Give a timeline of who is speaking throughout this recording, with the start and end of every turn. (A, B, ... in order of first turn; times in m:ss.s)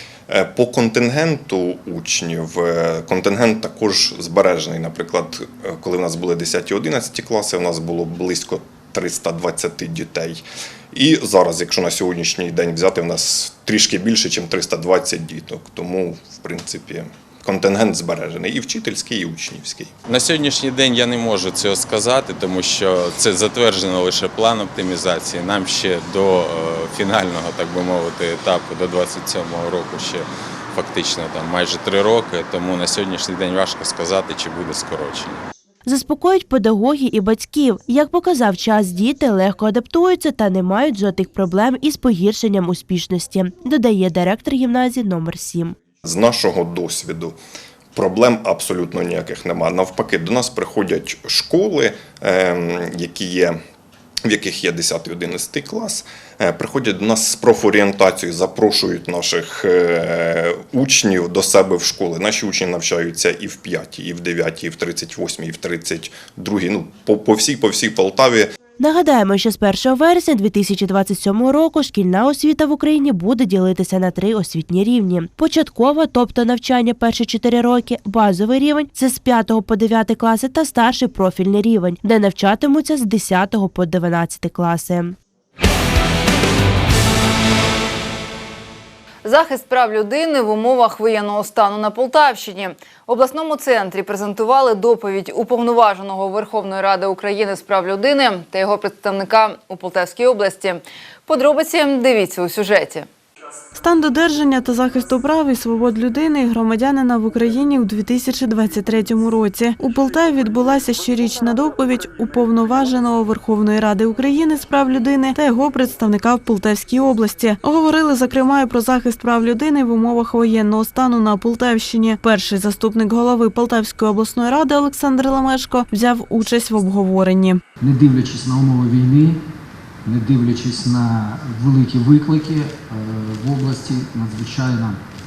0:00.3-0:19.9 A
0:20.0-0:35.4 B
0:35.8-0:45.8 C
0:46.0-0:47.4 A
0:47.9-0:53.6 A
0:54.3-1:08.5 A
1:08.8-1:25.2 C
1:29.2-1:43.1 D
1:43.7-2:07.6 E
2:07.8-2:09.4 F
2:10.0-2:15.0 F